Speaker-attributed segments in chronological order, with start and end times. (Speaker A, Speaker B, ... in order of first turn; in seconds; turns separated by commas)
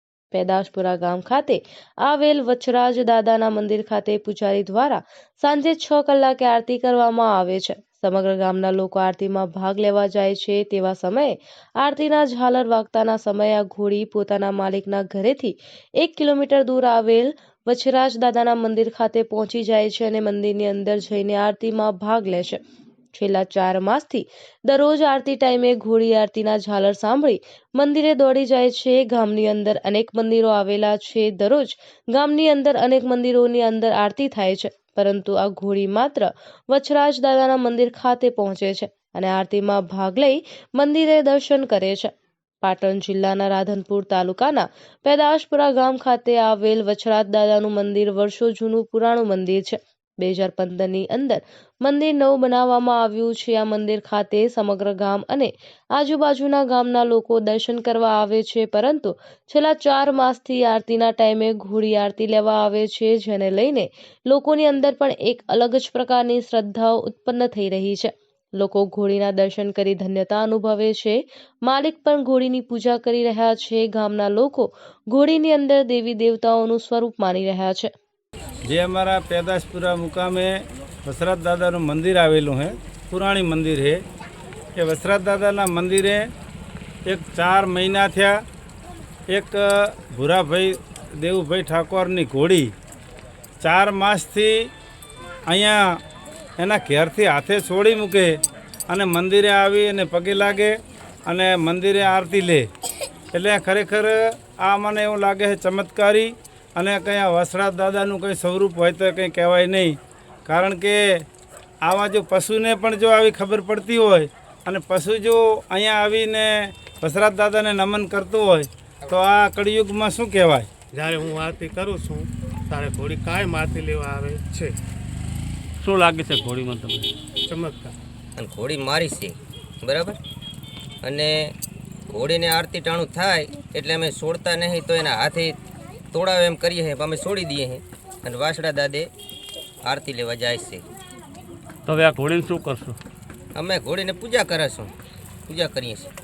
Speaker A: 0.3-22.6, Speaker A: 23.1-42.1, Speaker A: 42.6-77.9, Speaker B: 78.7-84.0, Speaker B: 84.8-86.3, Speaker B: 87.0-88.4, Speaker B: 89.3-92.7, Speaker B: 93.6-94.7, Speaker B: 95.5-96.0, Speaker B: 96.6-102.7, Speaker B: 103.3-111.2, Speaker B: 111.8-120.7, Speaker C: 120.9-124.8, Speaker D: 125.8-127.1, Speaker C: 127.5-128.0, Speaker E: 128.4-130.2, Speaker E: 131.0-131.5, Speaker E: 132.1-135.6, Speaker E: 136.1-139.1, Speaker E: 139.8-140.8, Speaker D: 141.8-143.0, Speaker E: 143.5-144.9, Speaker E: 145.5-146.1